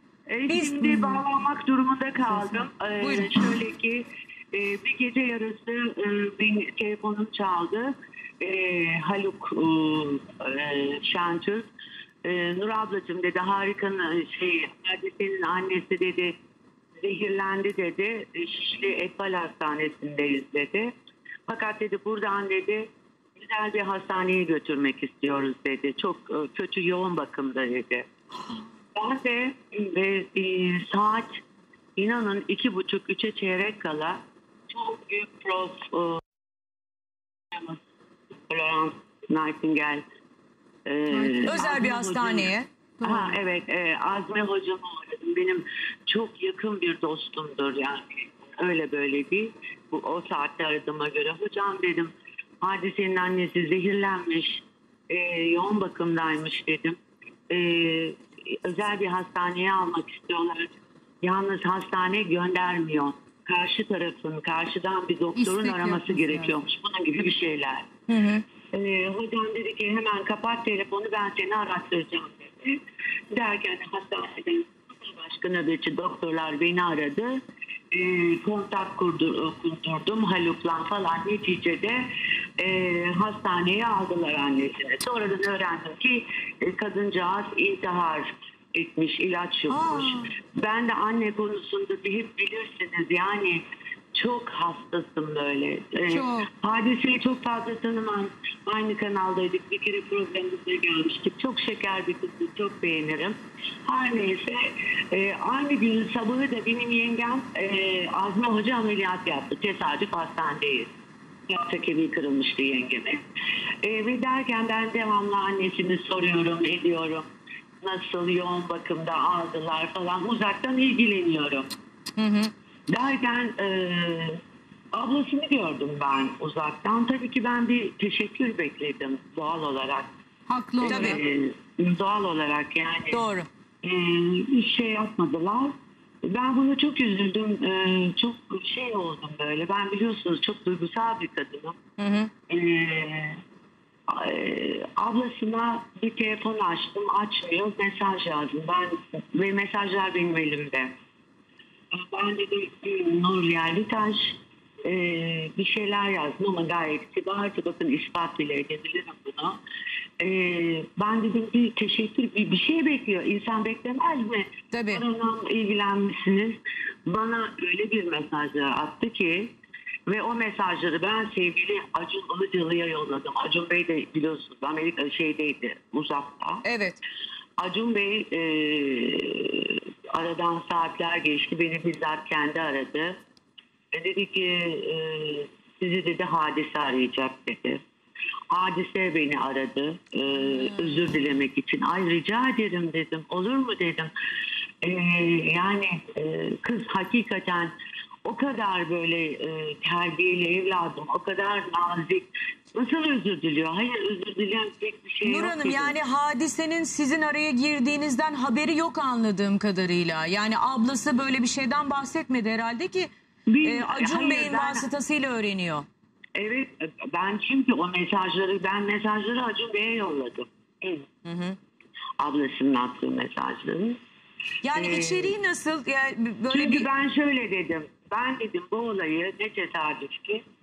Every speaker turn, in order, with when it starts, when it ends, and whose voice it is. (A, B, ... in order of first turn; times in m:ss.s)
0:00.3-0:11.7 A
0:00.5-0:01.2 B
0:03.0-0:03.3 B
0:12.2-0:16.3 A
0:17.0-0:20.9 A
0:21.5-0:28.0 A
0:28.9-0:31.4 A
0:32.0-0:36.2 A
0:37.5-0:37.8 A
0:38.5-0:40.0 A
0:40.8-0:57.0 A
0:41.1-0:41.9 C
0:41.4-0:42.7 B
0:43.0-0:43.4 C
0:57.5-1:00.7 A
1:01.2-1:07.9 A
1:05.3-1:06.6 C
1:08.1-1:08.4 B
1:08.7-1:12.8 A
1:13.3-1:17.4 A
1:17.9-1:22.0 A
1:22.6-1:33.6 A
1:29.7-1:30.1 C
1:34.1-1:50.9 A
1:36.1-1:36.5 C
1:51.5-1:53.2 A
1:53.8-1:57.3 A
1:57.8-2:01.7 A
2:02.2-2:02.5 B
2:02.9-2:04.4 A
2:04.9-2:10.1 A
2:10.5-2:11.2 C
2:10.8-2:13.2 A
2:10.8-2:11.2 B
2:13.1-2:13.5 B
2:13.8-2:15.7 A
2:16.2-2:21.8 A
2:22.0-2:22.3 B
2:22.5-2:23.4 A
2:24.1-2:30.9 A
2:31.9-2:39.6 A
2:40.2-2:49.5 A
2:44.7-2:45.0 B
2:50.1-2:56.6 A
2:56.6-2:57.0 B
2:57.6-3:03.1 A
3:03.9-3:07.8 A
3:08.5-3:14.1 A
3:14.8-3:17.7 A
3:18.2-3:26.0 A
3:25.2-3:33.1 B
3:33.5-3:34.9 A
3:33.6-3:35.8 B
3:36.4-3:41.0 A
3:41.2-3:41.6 B
3:42.2-3:44.0 A
3:44.6-3:46.9 B
3:44.7-3:45.4 A
3:46.5-3:50.4 A